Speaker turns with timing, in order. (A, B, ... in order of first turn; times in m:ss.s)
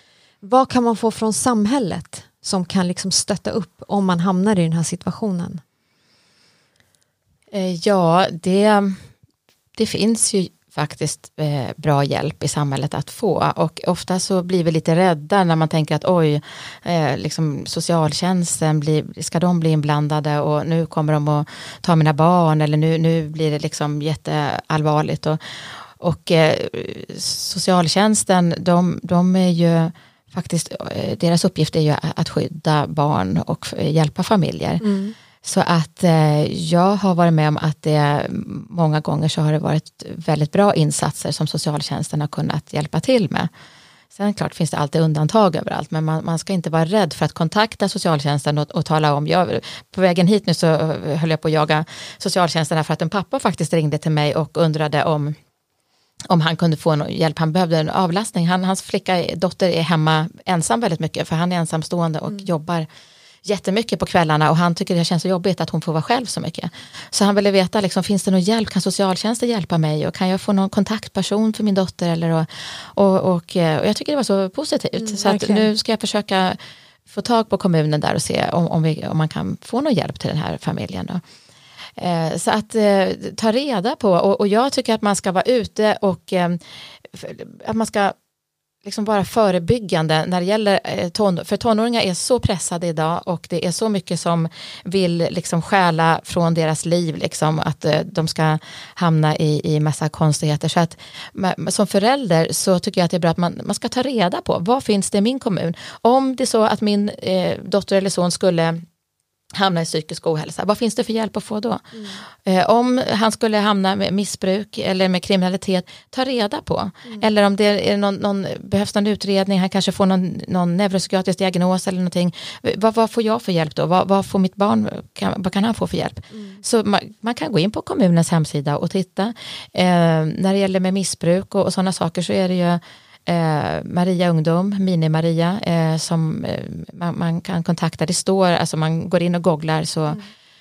0:00.4-0:05.6 A
0:07.5-0:09.0 B
0:09.8-0:34.8 B
0:34.8-0:35.1 A
0:35.4-0:43.5 B
0:44.1-0:55.4 B
0:56.3-1:02.9 B
1:03.4-1:21.2 B
1:15.0-1:15.7 A
1:22.0-1:28.2 B
1:28.8-1:48.8 B
1:49.5-2:20.2 B
1:51.9-1:52.2 A
2:06.3-2:06.6 A